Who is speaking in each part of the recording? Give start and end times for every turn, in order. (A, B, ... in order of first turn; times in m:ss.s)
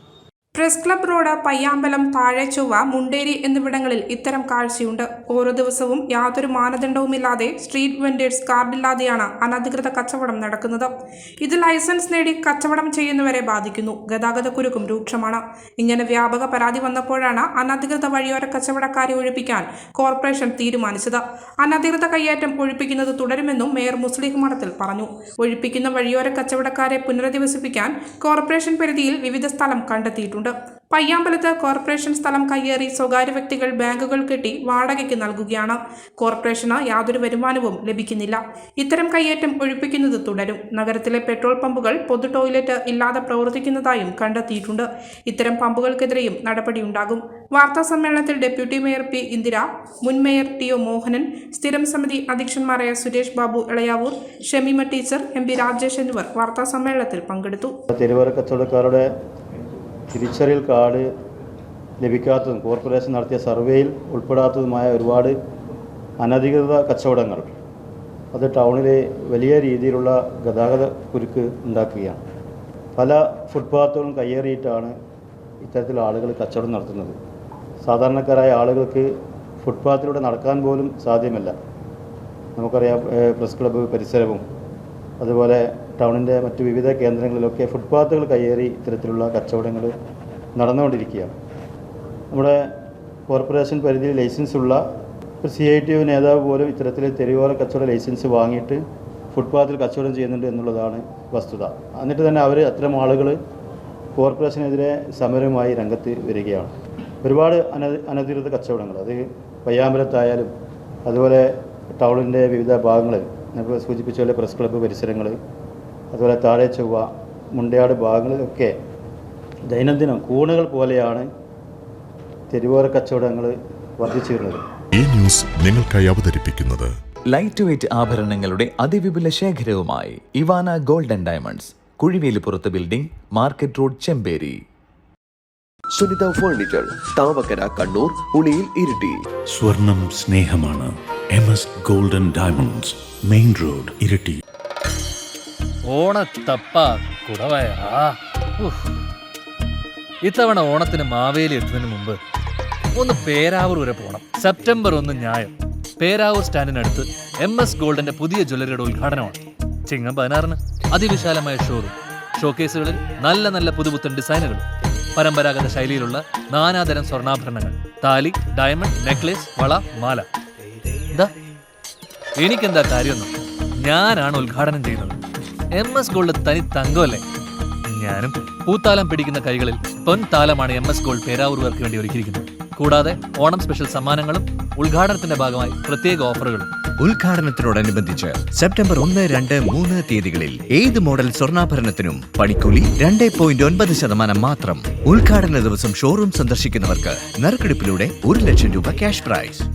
0:00.5-0:57.7 A
0:57.9-0:59.1 B
1:00.1-1:01.1 B
1:02.0-1:05.4 B
1:06.2-1:07.5 B
1:08.3-1:12.2 B
1:13.0-1:14.9 B
1:15.6-1:17.1 B
1:17.8-1:19.1 B
1:19.6-1:21.5 B
1:22.6-1:24.4 B
1:25.2-1:29.9 B
1:30.6-1:31.3 B
1:32.3-1:32.7 B
1:33.3-1:34.8 B
1:35.4-1:38.8 B
1:39.3-1:43.4 B
1:44.2-1:50.5 B
1:51.0-1:55.4 B
1:56.1-1:58.7 B
1:59.7-2:01.3 B
2:02.5-2:04.6 B
2:04.9-2:06.9 C
2:07.3-2:14.6 D
2:15.9-2:19.2 E
2:19.5-2:24.4 F
2:25.9-2:28.9 G
2:30.2-2:32.2 G
2:32.9-2:50.3 G
2:52.4-2:55.2 G
2:55.7-2:57.2 G
2:57.9-3:06.7 G
3:07.0-3:19.6 H